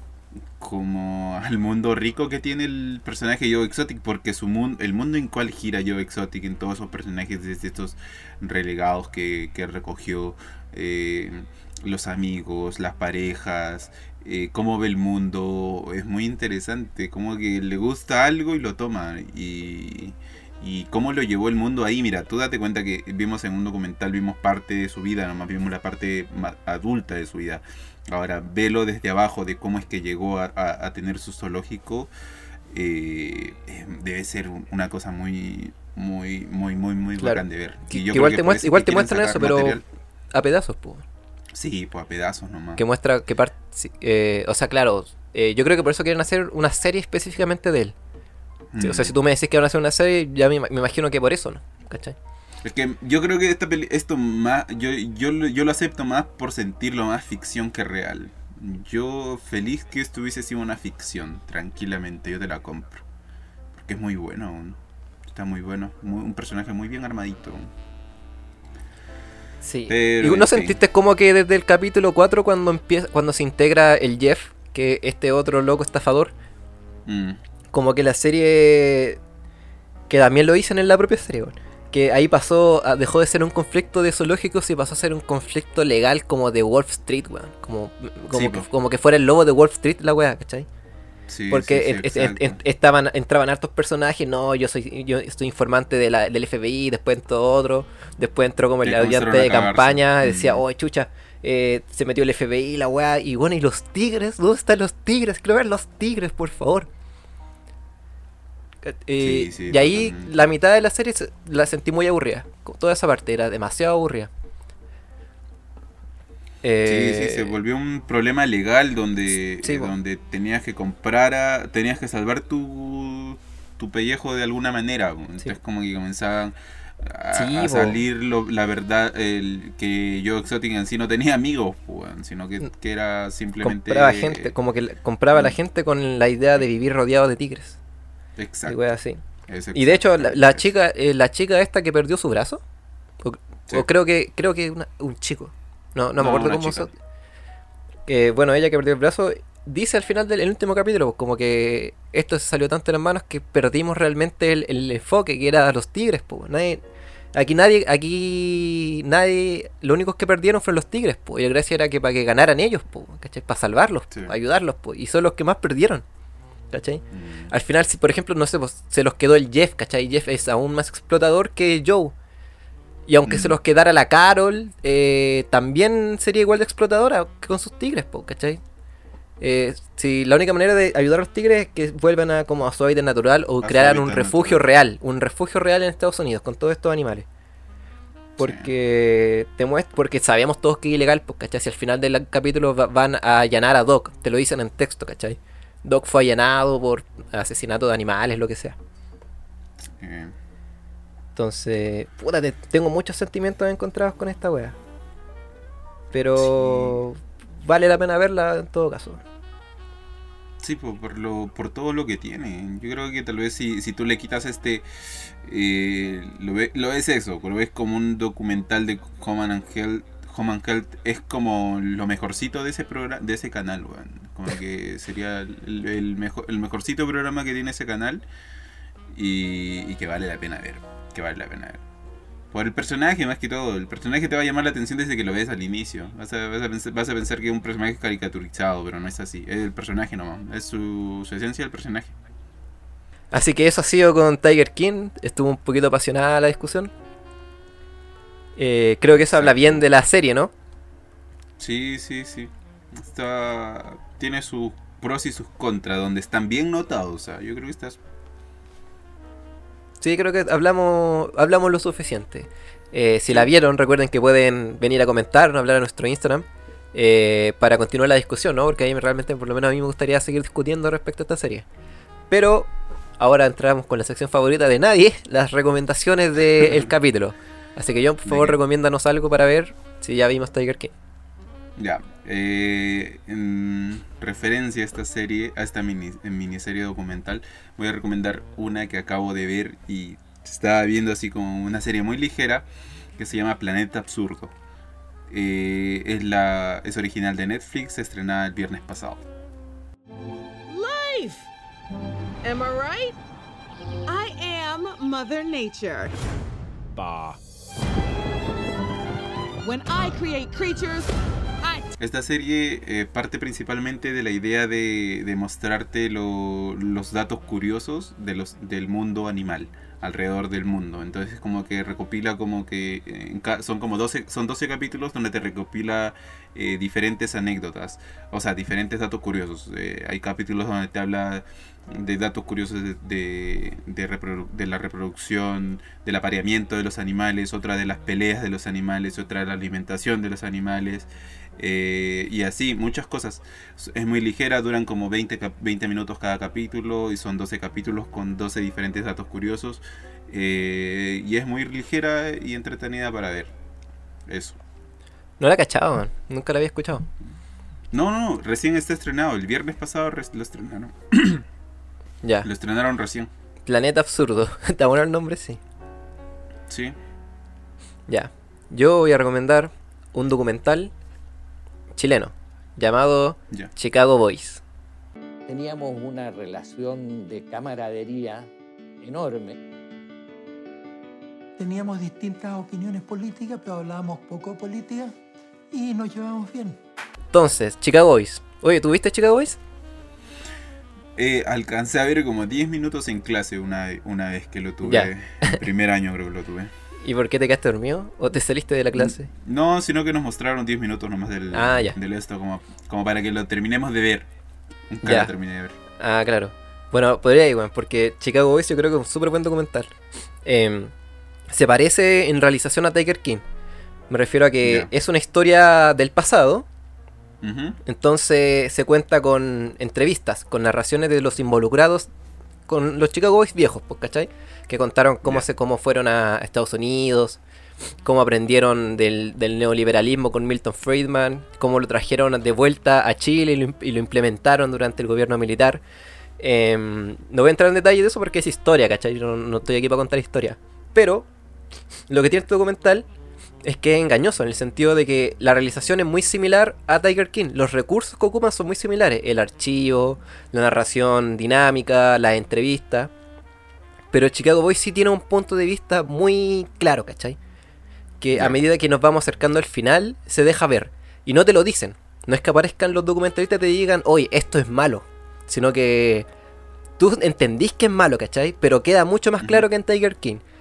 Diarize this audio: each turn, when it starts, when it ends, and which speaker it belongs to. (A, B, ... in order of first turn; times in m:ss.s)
0:00.6-0:32.1 A
0:32.7-0:39.8 A
0:37.2-0:39.8 B
0:40.3-0:41.0 B
0:41.5-0:42.8 A
0:42.8-0:48.0 B
0:48.7-0:49.2 A
0:48.8-0:52.2 B
0:52.6-1:03.0 A
1:03.7-1:07.7 A
1:09.6-1:16.3 B
1:09.9-1:10.8 A
1:17.1-1:17.4 A
1:17.7-1:19.2 B
1:20.1-1:30.7 B
1:28.3-1:28.7 A
1:31.3-1:32.6 A
1:31.5-1:46.9 B
1:38.8-1:40.6 A
1:48.8-1:54.3 B
1:49.2-1:50.3 A
1:56.6-1:57.5 B
1:56.8-2:14.5 A
1:59.6-1:59.9 B
2:07.3-2:08.0 B
2:13.6-2:17.8 B
2:18.4-2:18.8 A
2:18.7-2:19.2 B
2:19.5-2:20.7 A
2:19.7-2:22.6 B
2:23.2-2:26.9 B
2:26.2-2:26.9 A
2:28.1-2:36.8 B
2:37.4-2:46.0 B
2:44.1-2:44.4 A
2:46.7-2:52.1 B
2:47.1-2:47.5 A
2:53.1-2:58.6 B
2:53.2-2:53.6 A
2:59.4-3:07.3 B
3:03.6-3:04.6 A
3:08.4-3:08.7 A
3:08.4-3:18.8 B
3:19.9-3:20.4 A
3:21.4-3:24.8 B
3:26.1-3:29.2 B
3:26.4-3:27.0 A
3:30.6-3:48.2 A
3:49.1-3:51.8 A
3:52.5-4:02.2 A
4:03.3-4:06.9 B
4:08.6-4:10.5 B
4:09.3-4:09.8 A
4:11.6-4:18.0 A
4:20.0-4:31.7 B
4:32.3-4:40.9 B
4:38.2-4:38.6 A
4:41.8-4:52.7 A
4:53.2-4:54.5 A
4:55.3-4:59.3 A
5:00.7-5:01.5 C
5:02.4-5:03.2 C
5:04.1-5:06.2 C
5:07.0-5:07.4 D
5:09.6-5:11.8 C
5:12.0-5:53.5 A
5:54.3-5:54.6 A
5:55.4-5:57.1 B
5:57.9-6:01.5 A
6:02.2-6:02.5 B
6:02.4-6:03.3 A
6:03.7-6:05.6 B
6:06.7-6:07.0 A
6:08.1-6:10.9 B
6:12.0-6:14.6 B
6:15.5-6:18.5 D
6:19.0-6:19.6 D
6:21.6-6:25.1 E
6:25.7-6:26.8 E
6:27.3-6:29.6 B
6:31.2-6:36.7 A
6:34.8-6:35.6 B
6:37.0-6:39.3 B
6:39.0-6:44.3 A
6:41.5-6:42.0 B
6:44.9-6:45.8 A
6:45.0-6:45.3 B
6:46.0-6:49.9 B
6:50.4-6:50.9 B
6:51.5-6:53.4 B
6:54.1-6:56.7 B
6:54.6-6:54.9 A
6:57.4-6:57.8 A
6:57.9-7:02.1 B
7:02.7-7:07.4 B
7:08.0-7:15.8 B
7:16.4-7:21.3 B
7:22.1-7:23.1 B
7:23.6-7:33.1 B
7:34.1-7:37.4 B
7:38.2-7:46.3 B
7:38.3-7:38.6 A
7:47.0-7:50.4 B
7:49.4-7:49.7 A